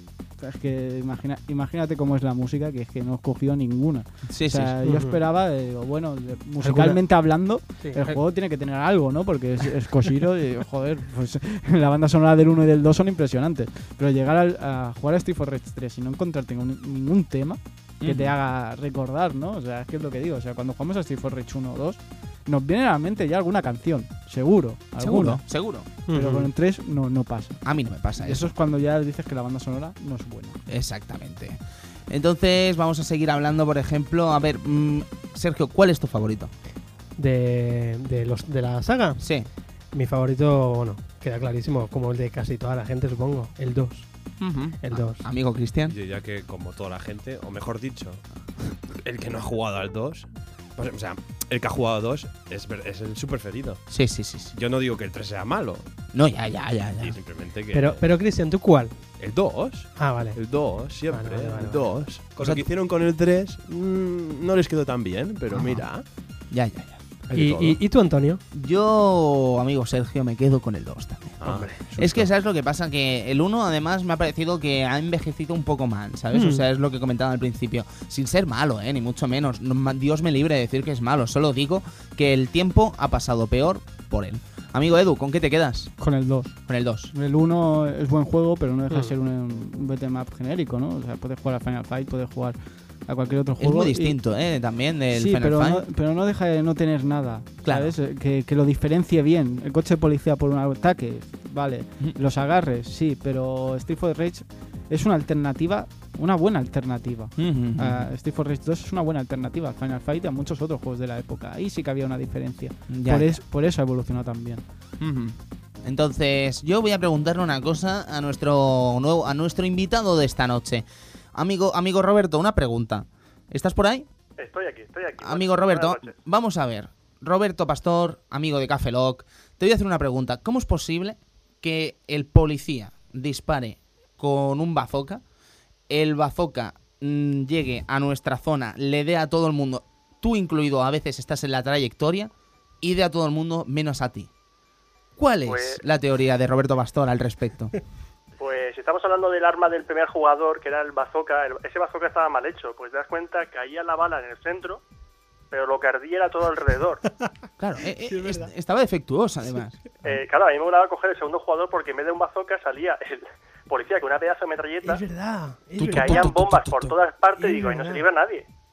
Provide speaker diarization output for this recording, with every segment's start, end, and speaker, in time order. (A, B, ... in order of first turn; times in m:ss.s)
0:00.4-0:25.4 A
0:04.3-0:04.8 B
0:04.8-0:05.2 C
0:06.6-0:07.0 C
0:07.8-0:08.2 C
0:18.0-0:18.3 B
0:25.0-0:25.9 B
0:26.1-0:26.5 C
0:26.1-0:27.6 A
0:27.6-0:28.5 B
0:28.2-0:30.6 A
0:30.7-0:36.5 B
0:37.2-0:39.2 C
0:39.2-0:39.5 B
0:39.9-0:44.1 C
0:44.4-0:46.0 B
0:44.8-0:45.2 C
0:45.9-0:48.2 D
0:48.9-0:53.9 D
0:53.9-0:54.5 B
0:54.5-0:55.9 D
0:56.1-0:57.2 B
0:57.0-0:58.1 D
0:57.7-0:58.9 C
0:59.2-1:06.0 D
1:00.0-1:01.9 C
1:02.4-1:02.7 B
1:05.5-1:05.9 B
1:06.5-1:07.0 B
1:07.3-1:07.8 D
1:07.4-1:08.4 C
1:08.5-1:25.9 B
1:11.4-1:12.3 D
1:11.4-1:11.8 C
1:16.3-1:16.6 C
1:26.0-1:26.6 A
1:26.7-1:27.1 B
1:27.1-1:34.2 A
1:28.9-1:29.2 C
1:33.6-1:35.8 B
1:35.1-1:54.6 A
1:37.6-1:37.9 B
1:47.4-1:48.1 B
1:52.9-1:53.4 B
1:55.0-2:04.1 B
2:04.4-2:06.1 E
2:05.2-2:15.2 B
2:15.9-2:24.3 B
2:25.2-2:27.8 B
2:25.5-2:25.8 E
2:28.4-2:34.8 E
2:35.5-2:37.0 E
2:37.6-2:40.2 B
2:38.0-2:38.5 C
2:40.0-2:45.0 E
2:44.8-2:46.4 C
2:45.8-2:47.0 B
2:45.9-2:48.5 E
2:47.4-2:48.1 C